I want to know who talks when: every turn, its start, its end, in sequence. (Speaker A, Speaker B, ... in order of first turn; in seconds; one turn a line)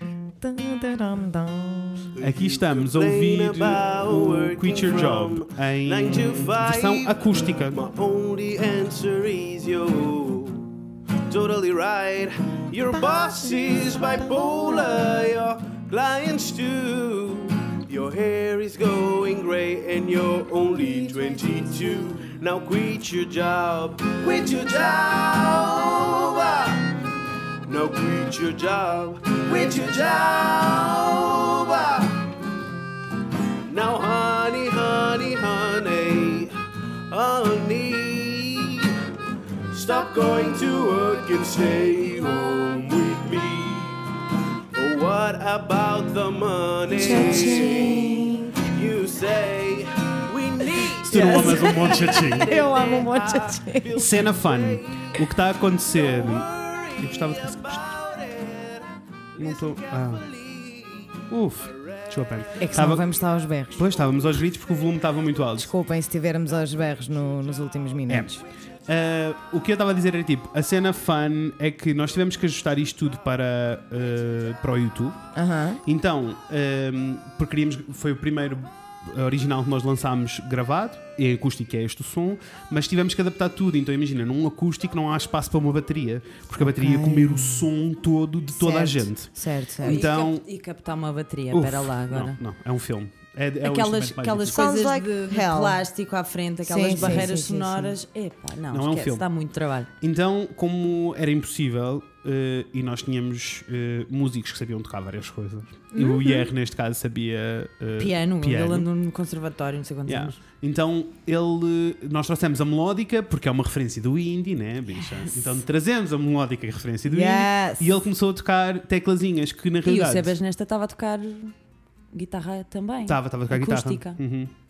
Speaker A: 0.4-2.1
Speaker B: 2.1-27.0
Speaker C: 2.2-7.8
Speaker A: 13.6-13.9
Speaker B: 27.6-32.3
Speaker B: 33.6-36.5
Speaker B: 37.1-39.0
Speaker B: 39.7-44.1
Speaker B: 44.7-55.3
Speaker A: 46.9-48.6
Speaker D: 47.0-48.5
Speaker C: 51.0-52.5
Speaker A: 51.1-54.0
Speaker C: 54.0-57.9
Speaker B: 55.8-63.0
Speaker C: 59.4-60.2
Speaker C: 61.3-63.1
Speaker A: 62.6-63.9
Speaker C: 63.7-65.7
Speaker A: 65.6-68.4
Speaker C: 68.1-68.3
Speaker C: 68.8-75.2
Speaker A: 75.3-75.8
Speaker C: 75.8-90.4
Speaker A: 86.6-87.7
Speaker A: 88.5-90.0
Speaker D: 89.8-92.4
Speaker C: 91.5-94.6
Speaker D: 93.6-99.9
Speaker A: 94.5-95.8
Speaker A: 96.6-98.0
Speaker C: 97.0-97.2
Speaker C: 98.7-99.2
Speaker C: 100.0-108.9
Speaker D: 106.0-106.4
Speaker D: 108.0-110.4
Speaker C: 110.1-120.3
Speaker A: 117.0-117.9
Speaker D: 119.8-121.5
Speaker D: 122.1-124.2
Speaker C: 123.0-124.5